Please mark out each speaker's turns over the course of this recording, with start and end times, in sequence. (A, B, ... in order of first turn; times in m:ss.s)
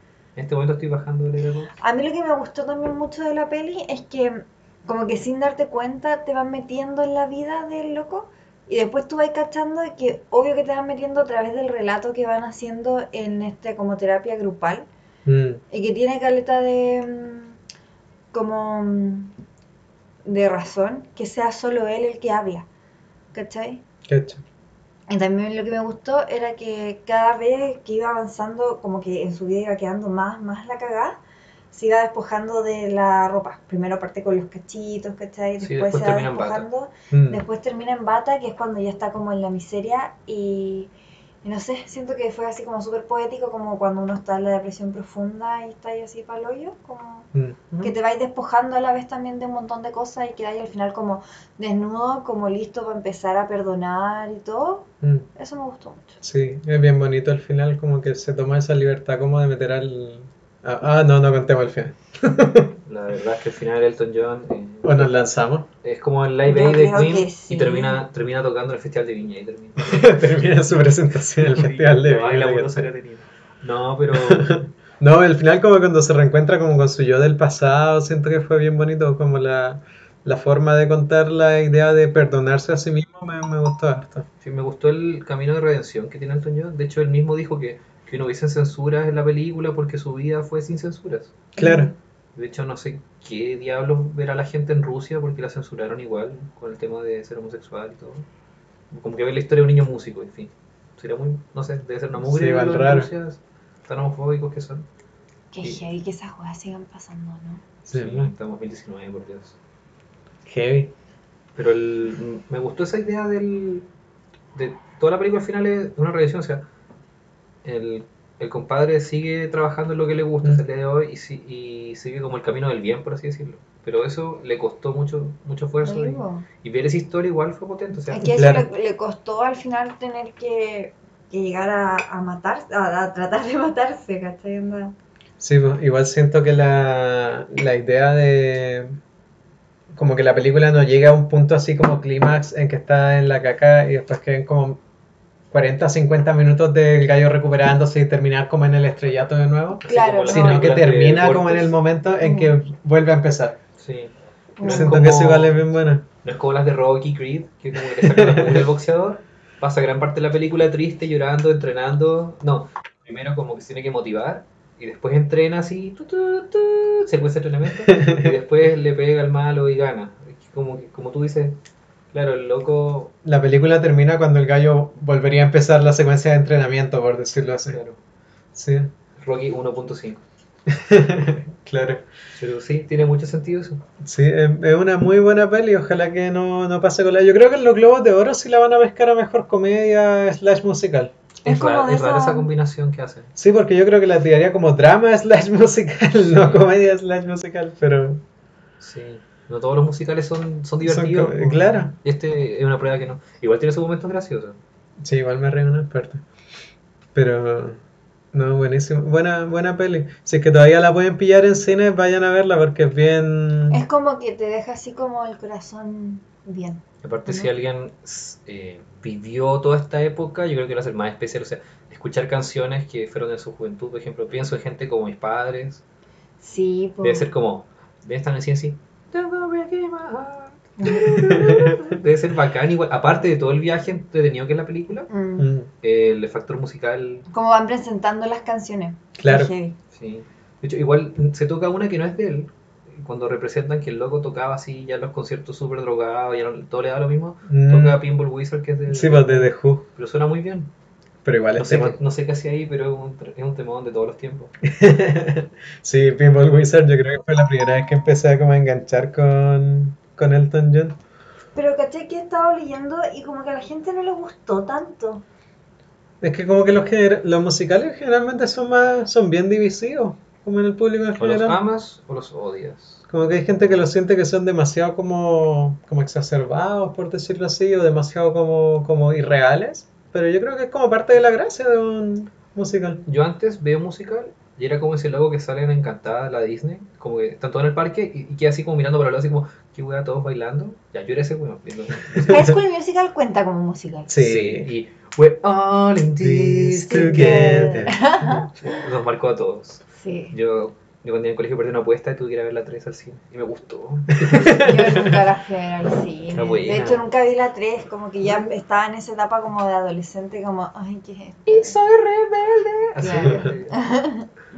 0:00.4-0:01.7 A
0:01.8-0:14.9 B
0:15.2-0:15.6 C
0:15.7-0:17.6 B
0:18.3-0:19.3 B
0:20.2-0:22.6 B
0:23.3-0:23.8 B
0:24.1-0:24.4 C
0:25.1-0:31.2 B
0:31.7-0:40.9 B
0:35.6-0:36.6 A
0:37.1-0:37.4 C
0:41.4-0:47.3 B
0:47.3-0:47.8 C
0:47.8-0:56.2 B
0:55.0-0:55.3 C
0:56.2-1:02.7 C
1:02.8-1:05.1 A
1:04.8-1:05.7 C
1:05.8-1:10.5 A
1:06.4-1:08.0 B
1:09.8-1:12.9 C
1:11.4-1:14.6 A
1:14.1-1:24.2 C
1:24.4-1:31.4 A
1:31.6-1:31.9 B
1:31.6-1:31.9 C
1:32.3-1:38.2 A
1:38.9-1:44.8 A
1:42.2-1:43.1 C
1:45.5-1:47.6 B
1:47.9-1:48.3 C
1:47.9-1:49.6 A
1:50.4-1:50.9 C
1:51.6-1:53.9 A
1:54.5-1:56.6 A
1:57.6-2:08.3 A
2:05.8-2:06.4 B
2:08.1-2:14.9 B
2:08.3-2:08.7 C
2:15.4-2:19.0 C
2:19.9-2:24.8 C
2:25.5-2:33.6 C
2:29.8-2:30.7 B
2:29.8-2:31.7 A
2:32.2-2:32.5 B
2:33.8-2:35.7 A
2:34.6-2:34.9 B
2:34.6-2:36.0 C
2:36.2-2:51.6 A
2:37.9-2:38.7 C
2:47.8-2:48.4 C
2:52.1-2:53.1 A
2:53.2-2:57.8 C
2:57.7-2:58.0 A
2:58.5-2:58.9 C
2:59.2-3:00.2 A
3:00.7-3:02.0 C
3:02.4-3:03.8 A
3:04.0-3:11.1 C
3:11.4-3:12.5 B
3:11.4-3:13.3 A
3:13.4-3:18.2 C
3:16.2-3:16.7 A
3:18.8-3:24.6 A
3:20.8-3:21.9 C
3:25.0-3:26.2 C
3:27.1-3:27.8 C
3:28.3-3:33.8 C
3:33.7-3:37.5 B
3:37.0-3:45.8 A
3:46.4-3:47.3 B
3:47.0-3:55.1 A
3:50.8-3:51.5 B
3:51.1-3:51.8 C
3:55.1-3:55.5 B
3:55.4-3:55.7 C
3:55.8-3:57.2 A
3:57.3-3:59.8 B
3:59.2-3:59.5 C
3:59.9-4:10.7 A
4:07.5-4:08.0 C
4:08.9-4:09.8 C
4:11.2-4:12.0 C
4:11.6-4:14.5 A
4:14.6-4:21.0 C
4:21.5-4:25.2 B
4:26.2-4:31.6 C
4:31.2-4:33.0 A
4:33.1-4:43.0 C
4:43.0-4:52.5 A
4:52.2-4:52.5 C
4:52.2-4:54.1 B
4:54.1-4:54.7 C
4:54.2-5:05.1 A
4:56.2-4:58.0 C
4:56.9-4:58.8 B
5:00.0-5:00.3 B
5:04.2-5:05.1 C
5:04.6-5:11.8 B
5:06.3-5:07.0 A
5:08.2-5:08.5 A
5:11.5-5:13.8 A
5:13.0-5:14.3 B
5:13.0-5:13.5 C